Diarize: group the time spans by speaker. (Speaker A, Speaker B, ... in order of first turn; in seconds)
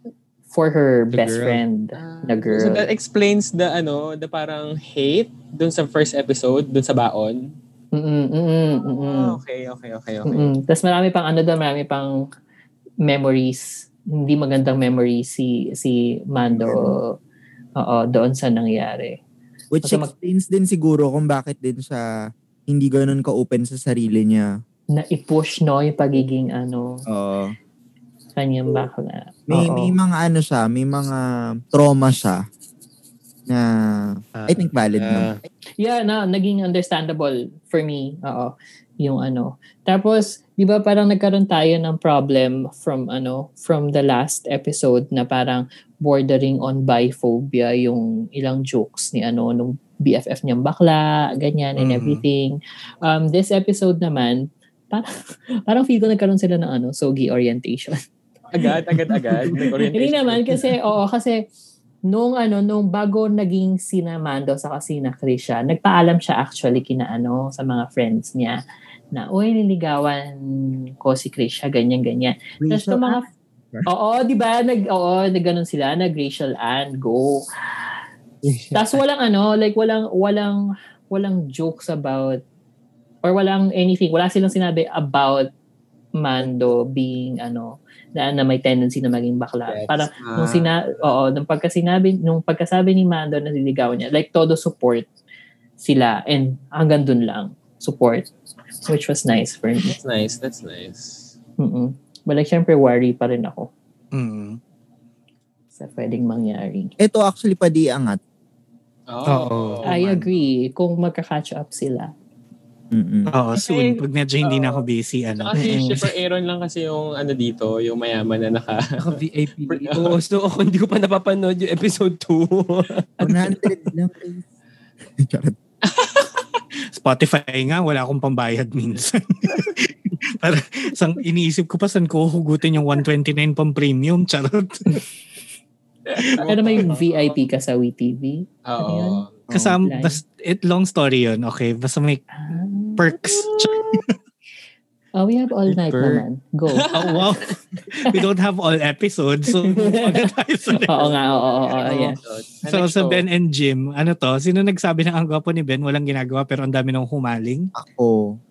Speaker A: 0.5-2.9, 7.9-9.4, 10.2-12.2, 13.0-17.1, 17.8-19.2, 19.8-20.1, 24.9-27.0, 28.4-29.9, 35.8-55.1, 55.7-58.0, 59.9-61.4, 62.1-68.6, 69.1-73.2, 73.9-77.4, 78.7-82.4, 83.2-85.5, 86.2-95.1, 95.8-98.3, 98.9-100.0, 101.6-103.7, 105.8-106.9, 109.8-112.1, 115.5-116.0, 136.4-139.3, 139.8-140.2, 142.4-143.2, 145.2-146.9, 149.6-152.1
Speaker B: 1.1-1.6, 34.4-35.4, 109.2-109.8, 119.0-123.7, 145.7-146.2
Speaker C: 1.9-7.5, 9.1-10.5, 58.5-60.7, 89.7-90.7, 99.8-101.3, 109.1-110.0, 113.5-114.8, 115.4-118.8, 119.7-120.2, 125.9-126.3, 136.1-137.2, 138.7-139.4, 146.8-147.5, 151.1-153.2
Speaker D: 16.5-16.9, 19.7-22.0, 22.7-24.5, 27.1-27.5, 29.5-32.4, 33.5-35.3, 72.6-73.9, 107.0-108.2, 112.9-113.3, 123.2-124.5, 125.2-125.5, 139.5-139.8, 157.8-158.4
Speaker E: 51.8-52.2, 104.1-104.6, 113.3-116.1, 126.9-135.1, 139.5-142.2, 143.0-144.1, 146.9-151.1, 152.7-157.7